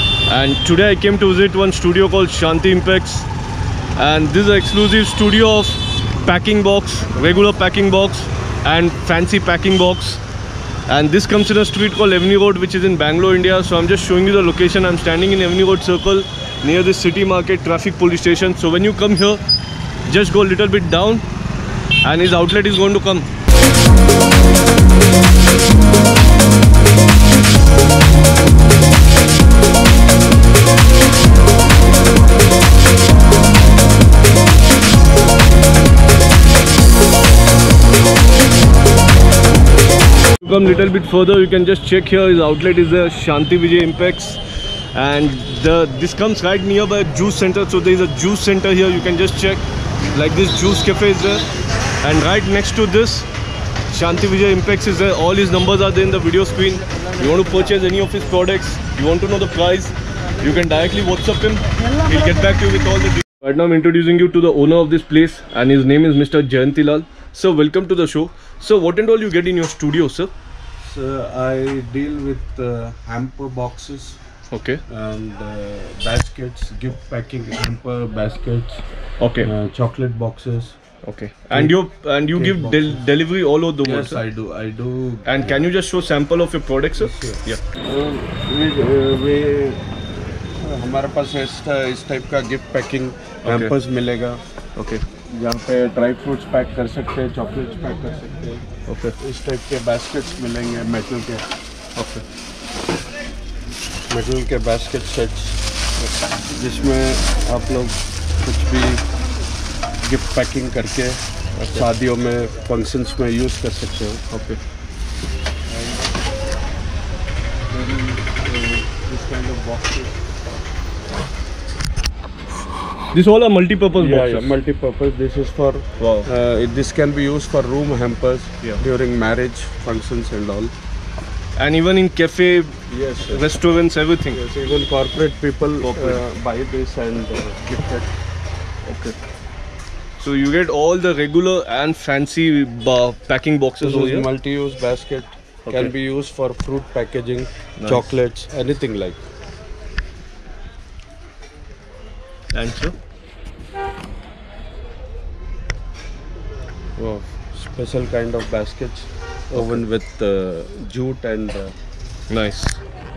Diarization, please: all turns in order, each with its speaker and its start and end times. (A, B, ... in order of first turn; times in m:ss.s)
0:00.3-0:03.3 A
0:04.0-0:10.2 A
0:10.9-0:19.4 A
0:20.0-0:21.2 A
0:22.0-0:23.3 A
0:40.4-0:44.4 A
0:44.9-0:51.5 A
0:52.0-0:53.3 A
0:53.9-1:10.3 A
1:10.8-1:14.2 B
1:14.5-1:14.8 A
1:14.9-1:18.8 B
1:19.2-1:19.5 A
1:19.4-1:20.8 B
1:21.0-1:24.2 A
1:21.5-1:21.8 B
1:22.3-1:23.1 B
1:23.8-1:25.6 B
1:25.2-1:27.6 A
1:27.0-1:29.8 B
1:30.6-1:34.4 B
1:33.4-1:33.7 A
1:34.8-1:35.0 A
1:35.2-1:38.7 B
1:38.9-1:39.1 A
1:39.2-1:41.5 B
1:42.0-1:42.2 A
1:44.1-1:45.6 B
1:46.5-1:49.0 B
1:50.0-1:54.2 B
1:51.6-1:51.9 A
1:54.3-1:54.6 A
1:55.7-1:56.0 B
1:57.7-2:00.2 B
2:03.1-2:04.5 A
2:03.9-2:10.7 B
2:06.0-2:06.3 A
2:11.6-2:14.4 A
2:12.9-2:13.4 B
2:14.3-2:18.1 B
2:15.8-2:16.2 A
2:18.8-2:19.2 A
2:20.2-2:24.3 A
2:23.8-2:29.2 B
2:25.6-2:25.9 A
2:27.8-2:28.1 A
2:32.5-2:33.0 A
2:37.0-2:41.7 B
2:39.5-2:39.8 A
2:42.3-2:42.8 A